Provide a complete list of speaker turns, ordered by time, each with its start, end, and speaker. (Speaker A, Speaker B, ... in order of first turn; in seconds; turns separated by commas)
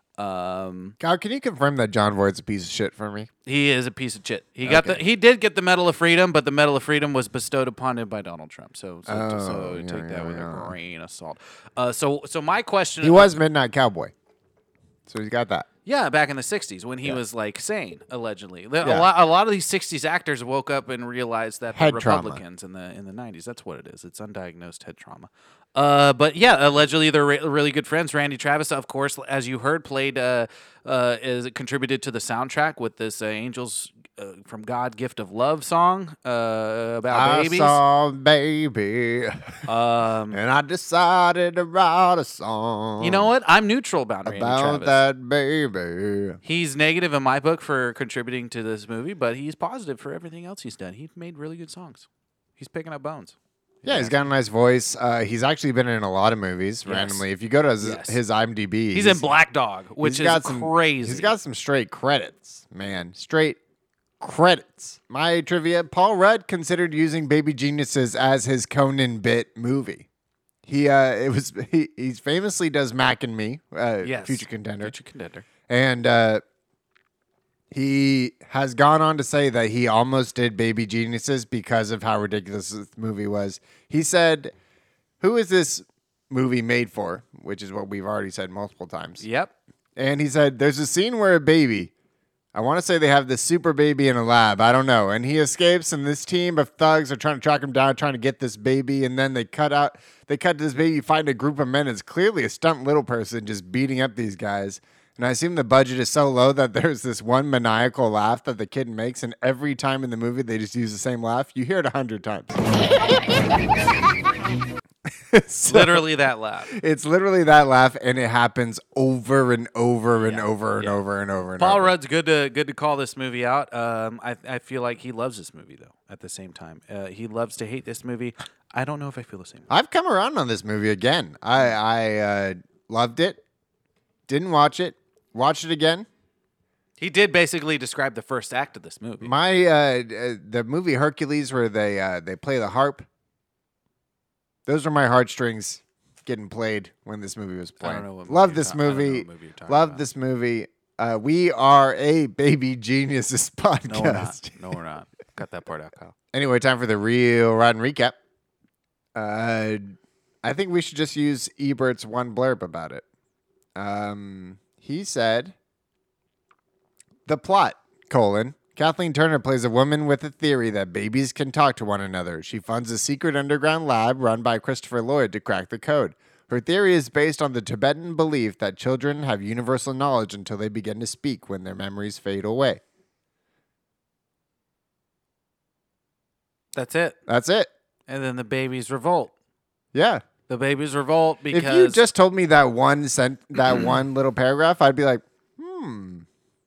Speaker A: 0.2-1.0, Speaker B: 1.0-3.3, Speaker A: 3.5-13.3, Speaker B: 4.6-5.0, Speaker B: 9.1-10.8, Speaker B: 13.0-14.1, Speaker B: 15.1-15.7, Speaker A: 15.9-37.8, Speaker B: 18.8-19.1, Speaker B: 21.7-22.4, Speaker B: 37.1-39.6, Speaker A: 39.7-40.4, Speaker B: 40.3-43.3, Speaker A: 43.0-45.0, Speaker B: 44.2-46.4, Speaker A: 46.4-52.1, Speaker A: 52.6-54.2, Speaker B: 53.9-59.3, Speaker A: 56.9-57.2, Speaker A: 57.8-58.2, Speaker A: 58.9-61.3, Speaker B: 60.0-63.6, Speaker B: 64.2-70.1, Speaker B: 70.7-75.0, Speaker A: 74.0-75.5, Speaker B: 75.7-76.4, Speaker B: 77.7-84.5, Speaker B: 85.2-89.2, Speaker A: 89.2-89.5, Speaker B: 90.0-91.9, Speaker B: 92.5-112.6, Speaker B: 115.3-116.1, Speaker A: 115.7-116.7, Speaker B: 116.7-121.9, Speaker A: 120.2-121.0, Speaker A: 121.6-129.7, Speaker B: 129.7-133.4, Speaker B: 134.3-136.1, Speaker A: 137.0-139.3, Speaker B: 139.2-143.1, Speaker B: 144.7-154.6, Speaker A: 147.8-150.0, Speaker A: 153.9-156.1, Speaker B: 156.3-158.2, Speaker B: 159.2-163.0, Speaker B: 163.8-165.5, Speaker B: 167.3-182.8, Speaker A: 186.8-187.2, Speaker B: 187.3-187.7, Speaker A: 188.1-189.3, Speaker B: 189.9-190.2, Speaker A: 190.5-192.0, Speaker B: 191.5-196.3